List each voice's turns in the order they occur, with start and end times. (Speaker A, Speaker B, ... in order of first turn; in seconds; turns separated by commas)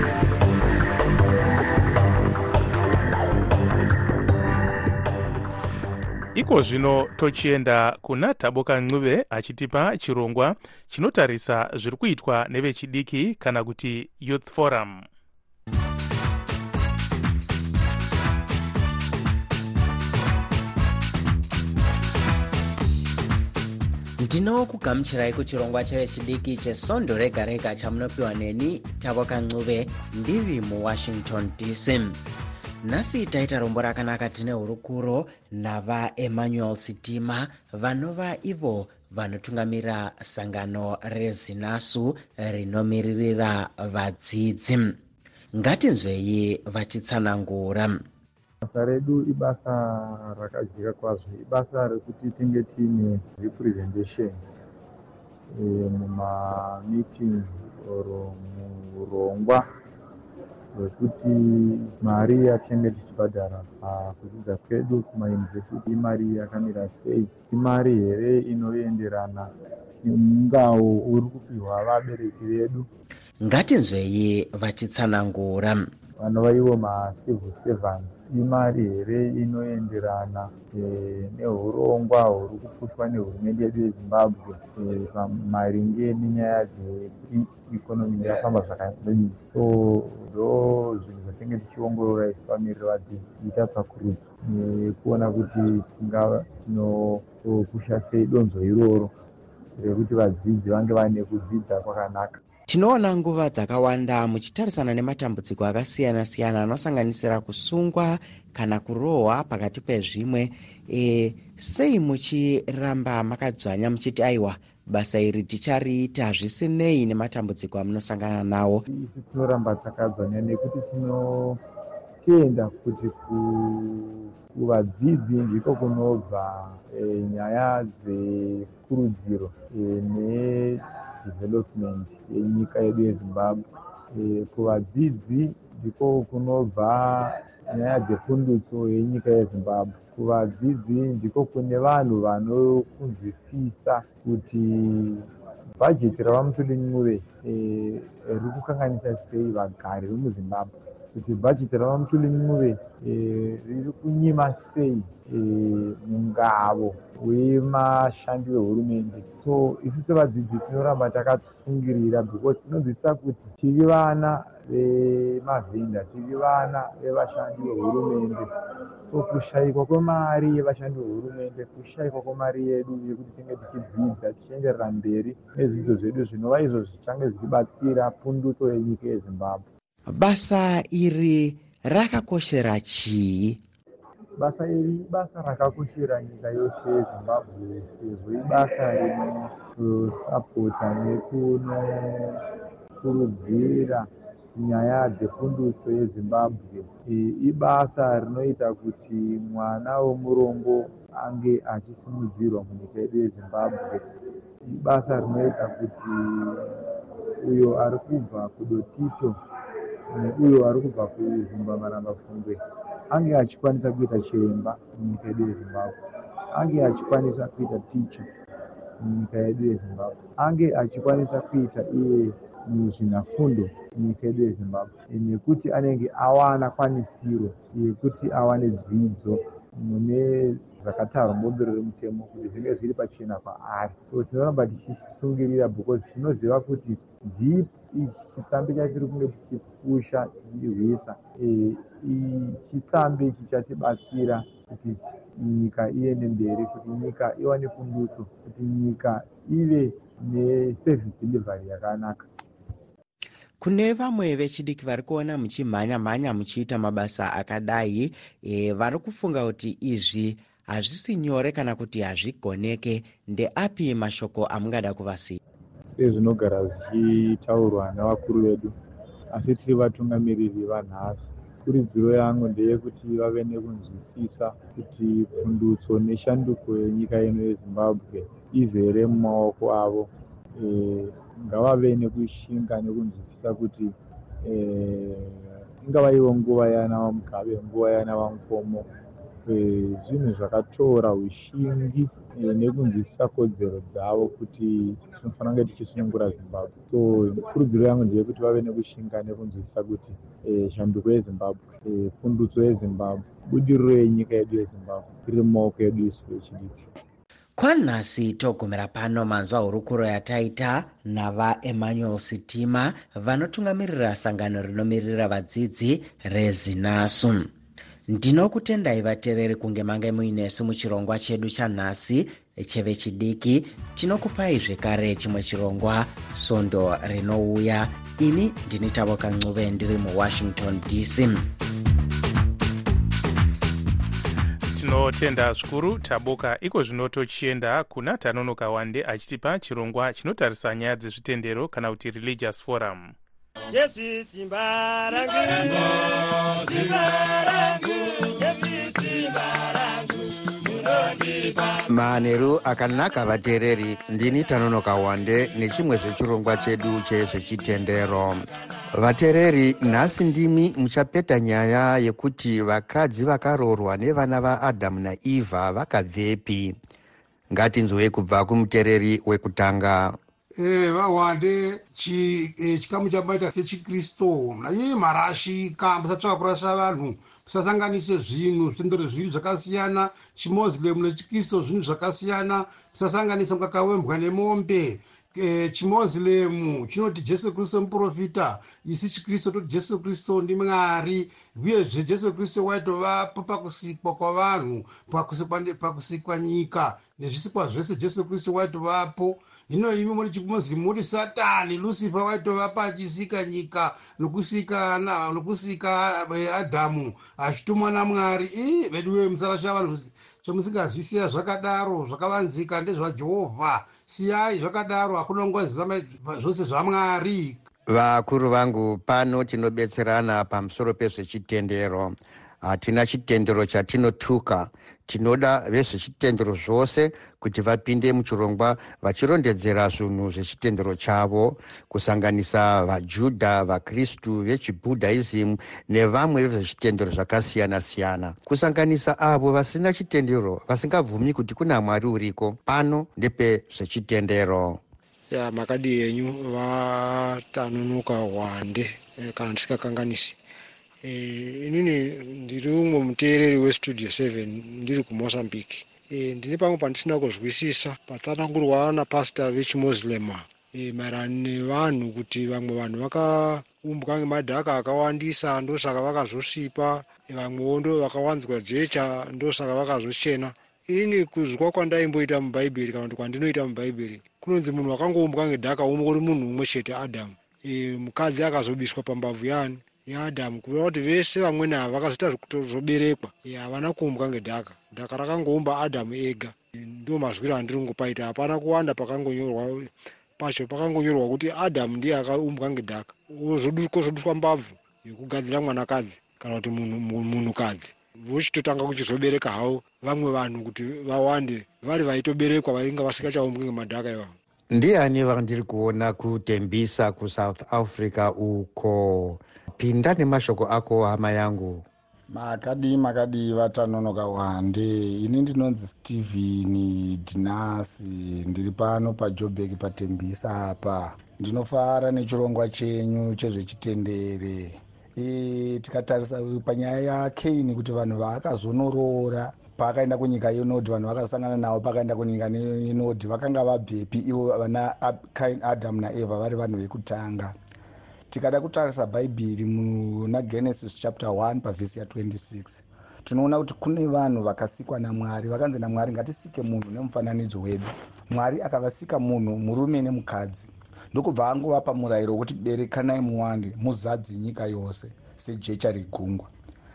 Speaker A: 6.3-15.1, Speaker B: 24.2-32.2, Speaker B: 32.8-45.0, Speaker B: 45.5-48.0, Speaker C: 48.6-54.4, Speaker C: 55.5-59.6, Speaker C: 60.7-69.5, Speaker C: 70.0-72.9, Speaker B: 73.4-75.9, Speaker C: 76.2-99.1, Speaker C: 99.8-102.4, Speaker B: 102.7-118.8, Speaker C: 118.9-121.6, Speaker C: 122.2-145.3, Speaker C: 145.8-168.5, Speaker C: 169.1-179.7, Speaker B: 180.1-183.6, Speaker C: 184.4-192.4, Speaker C: 193.0-204.0, Speaker C: 204.7-206.8, Speaker C: 207.4-209.4, Speaker C: 210.1-215.9, Speaker C: 216.5-218.3, Speaker C: 219.0-252.3, Speaker B: 253.6-265.4, Speaker C: 265.9-268.8, Speaker C: 269.3-288.9, Speaker C: 289.5-306.9, Speaker B: 307.6-317.5, Speaker B: 318.1-331.5, Speaker A: 334.7-343.1, Speaker D: 343.7-351.7, Speaker E: 351.9-366.8, Speaker E: 367.5-370.2, Speaker F: 370.6-417.6, Speaker E: 417.9-444.8, Speaker G: 445.3-450.4, Speaker G: 451.0-504.3, Speaker E: 504.7-511.9, Speaker H: 512.3-537.5, Speaker H: 538.3-556.5